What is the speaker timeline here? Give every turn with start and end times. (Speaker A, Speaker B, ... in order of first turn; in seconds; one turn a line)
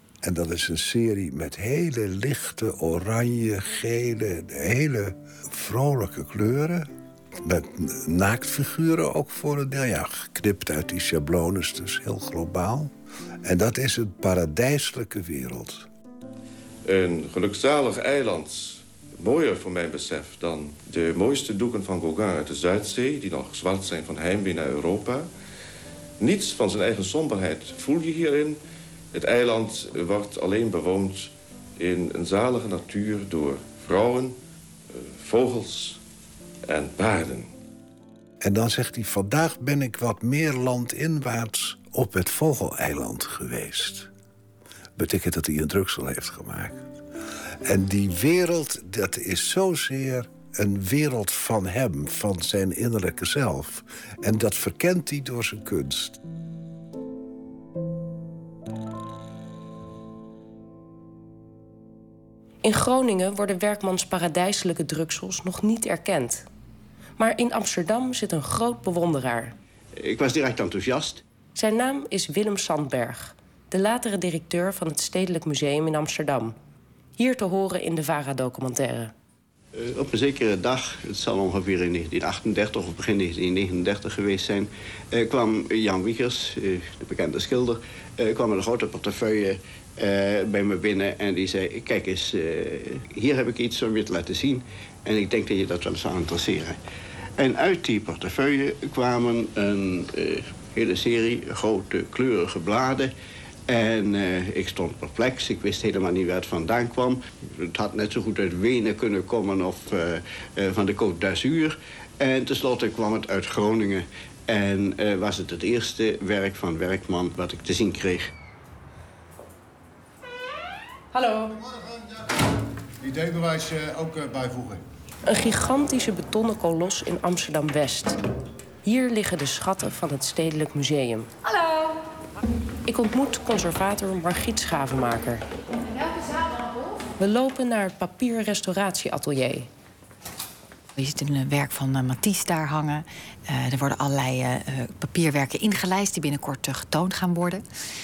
Speaker A: 0.2-6.9
Speaker A: 7.4-12.9
Speaker A: 13.4-15.8
Speaker B: 16.8-25.3
Speaker B: 26.2-28.6
Speaker B: 29.1-34.4
Speaker B: 34.9-36.0
Speaker B: 36.7-37.5
Speaker A: 38.4-44.1
Speaker A: 45.0-46.8
Speaker A: 47.6-56.2
Speaker C: 62.6-66.4
Speaker C: 67.2-69.5
Speaker D: 70.0-71.2
Speaker C: 71.5-76.5
Speaker C: 77.2-79.1
Speaker D: 79.7-96.8
Speaker D: 97.4-103.1
Speaker D: 103.7-118.3
Speaker E: 121.5-122.0
Speaker E: 123.0-124.8
Speaker C: 125.2-128.2
Speaker C: 128.8-131.3
Speaker C: 132.8-135.4
Speaker C: 137.2-139.7
Speaker F: 141.0-147.6